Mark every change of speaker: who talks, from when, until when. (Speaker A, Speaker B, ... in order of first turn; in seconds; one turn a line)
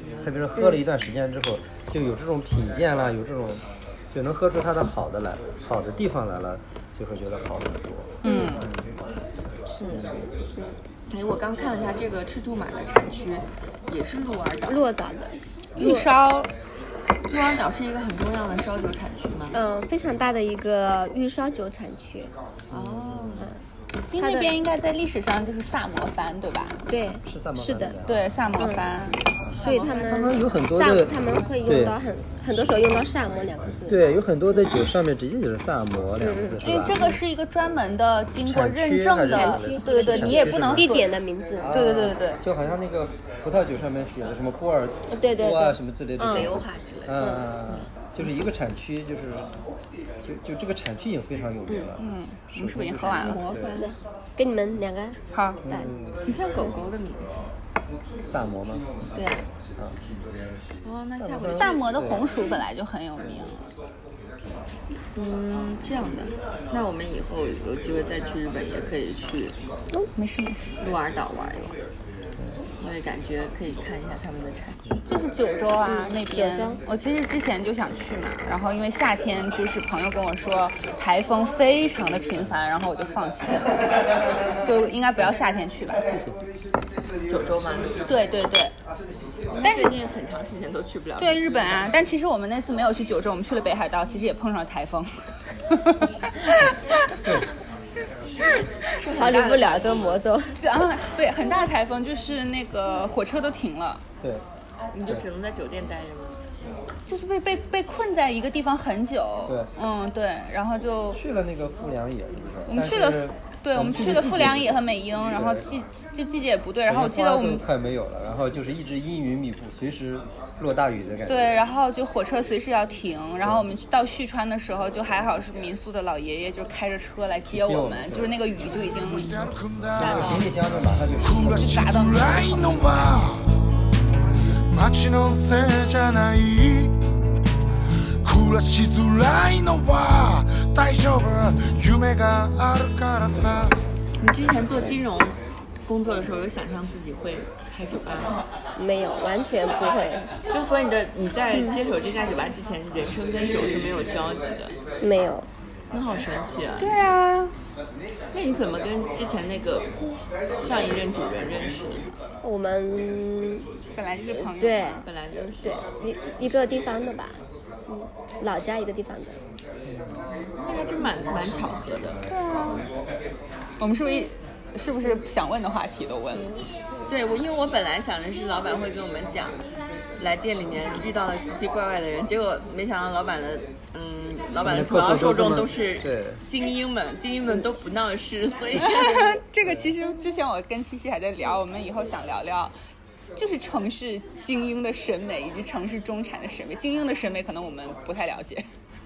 Speaker A: 0.2-8.9
Speaker B: 8.2-8.6
Speaker C: 8.2-8.6
Speaker C: 9.7-10.8
Speaker A: 9.8-10.2
Speaker D: 11.1-14.9
Speaker C: 14.7-16.1
Speaker B: 15.8-16.5
Speaker D: 17.3-19.6
Speaker C: 19.5-22.3
Speaker A: 22.7-23.4
Speaker D: 22.7-23.5
Speaker B: 24.1-26.8
Speaker C: 24.2-24.5
Speaker C: 26.9-28.0
Speaker A: 27.3-28.3
Speaker B: 28.1-29.2
Speaker C: 28.6-28.9
Speaker C: 29.6-34.0
Speaker A: 29.9-32.0
Speaker A: 33.9-37.2
Speaker C: 36.2-36.6
Speaker B: 36.6-41.1
Speaker A: 38.5-41.0
Speaker C: 39.3-41.7
Speaker A: 41.6-49.5
Speaker B: 41.7-42.4
Speaker C: 45.1-46.5
Speaker D: 46.3-47.9
Speaker C: 47.2-47.5
Speaker A: 50.2-53.8
Speaker B: 52.0-53.5
Speaker D: 53.1-53.9
Speaker C: 53.8-55.9
Speaker B: 55.3-55.6
Speaker A: 55.6-56.2
Speaker D: 56.2-57.3
Speaker A: 58.2-58.9
Speaker D: 59.1-59.5
Speaker D: 60.8-62.1
Speaker A: 61.1-62.3
Speaker B: 61.5-63.7
Speaker D: 65.2-69.5
Speaker B: 70.2-70.7
Speaker D: 70.8-71.8
Speaker D: 72.8-74.9
Speaker B: 75.1-83.7
Speaker C: 75.9-76.8
Speaker B: 84.6-86.0
Speaker A: 86.1-86.4
Speaker D: 87.3-88.0
Speaker B: 88.1-88.7
Speaker D: 89.5-91.8
Speaker B: 89.6-90.0
Speaker B: 91.2-97.3
Speaker A: 96.6-97.5
Speaker D: 99.0-100.2
Speaker C: 99.1-100.5
Speaker B: 100.5-104.0
Speaker D: 104.9-106.4
Speaker B: 107.1-111.2
Speaker A: 111.1-115.7
Speaker B: 112.7-117.6
Speaker A: 116.9-121.5
Speaker B: 121.3-129.5
Speaker A: 127.5-128.3
Speaker E: 129.1-130.3
Speaker A: 129.9-131.5
Speaker D: 130.0-130.5
Speaker E: 131.2-133.5
Speaker B: 131.3-133.0
Speaker E: 134.7-137.0
Speaker E: 138.2-143.8
Speaker D: 144.2-148.4
Speaker C: 148.8-150.3
Speaker D: 150.5-154.8
Speaker C: 155.0-155.5
Speaker D: 155.9-157.0
Speaker B: 156.8-157.5
Speaker D: 158.3-159.9
Speaker D: 160.5-162.2
Speaker C: 162.4-163.7
Speaker B: 164.0-164.9
Speaker C: 164.3-167.4
Speaker D: 165.1-165.8
Speaker C: 167.9-169.4
Speaker D: 170.6-172.2
Speaker B: 172.3-172.8
Speaker B: 173.8-176.5
Speaker D: 177.1-179.6
Speaker D: 180.2-189.4
Speaker A: 184.6-186.4
Speaker B: 188.8-192.7
Speaker A: 189.6-189.9
Speaker B: 193.4-198.7